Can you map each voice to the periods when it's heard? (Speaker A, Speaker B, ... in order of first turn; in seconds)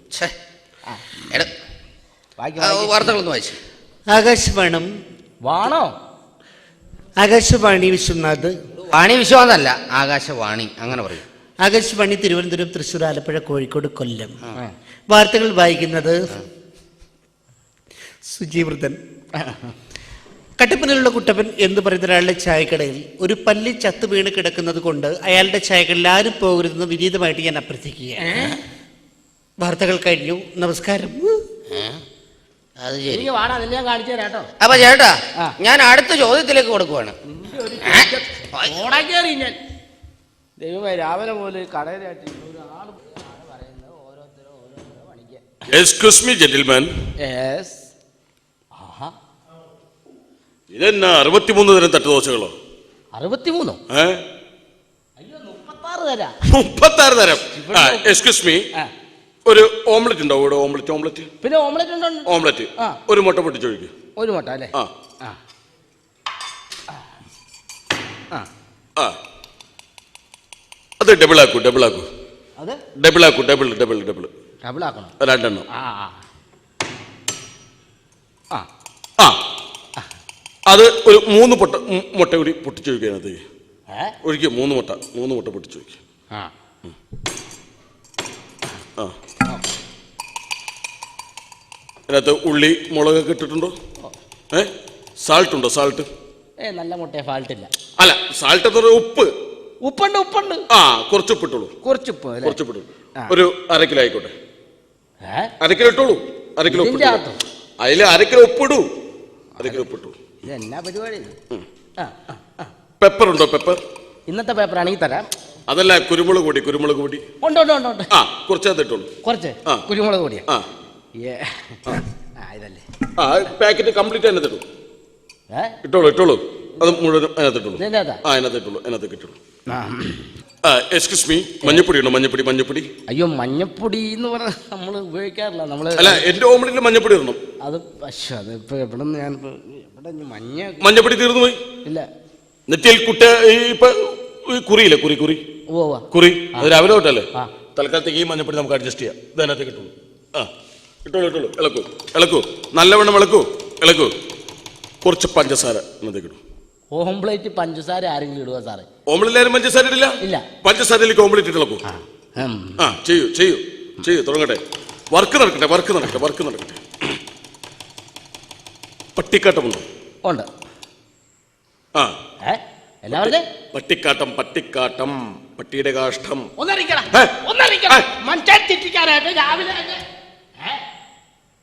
Speaker A: 2.4-3.1, 5.5-5.9, 19.4-19.7, 28.2-28.6, 33.1-34.5, 37.3-39.6, 40.6-45.4, 47.2-47.9, 48.8-49.1, 53.1-53.8, 55.2-56.4, 57.5-58.1, 61.4-63.0, 64.2-65.4, 74.6-75.1, 75.7-76.2, 96.6-97.7, 99.8-100.6, 101.8-102.6, 105.2-105.5, 106.7-107.4, 109.6-109.9, 110.4-111.3, 112.0-112.7, 114.3-115.3, 117.4-118.1, 119.2-120.5, 121.2-122.8, 125.5-125.8, 127.8-128.2, 129.7-130.3, 133.1-136.2, 137.6-140.9, 145.7-146.7, 156.9-158.9, 161.9-162.9, 172.4-173.4, 176.6-180.0
Speaker B: 2.6-3.6, 8.9-11.2, 31.7-32.0, 32.8-33.3, 34.6-37.2, 37.9-38.7
Speaker C: 4.1-4.9, 7.2-8.5, 11.6-14.4, 15.1-16.2, 18.3-19.0, 20.6-28.4, 29.6-31.4
Speaker D: 45.7-46.9, 50.7-52.5, 53.9-54.2, 56.5-58.6, 59.5-61.3, 62.3-63.9, 71.0-72.1, 73.0-74.3, 75.2-75.7, 80.7-83.4, 84.2-86.0, 92.1-93.7, 95.2-96.1, 98.0-99.3, 100.7-101.7, 102.4-104.3, 105.6-107.2, 107.8-108.9, 109.6-110.2, 113.0-113.8, 115.7-117.2, 118.1-119.1, 123.2-124.6, 125.8-129.4, 130.6-132.9, 136.0-137.4, 140.8-141.6, 142.7-145.4, 146.1-150.5, 151.1-154.1, 155.0-156.4, 159.1-161.8, 162.8-166.8, 169.2-169.8, 173.1-176.5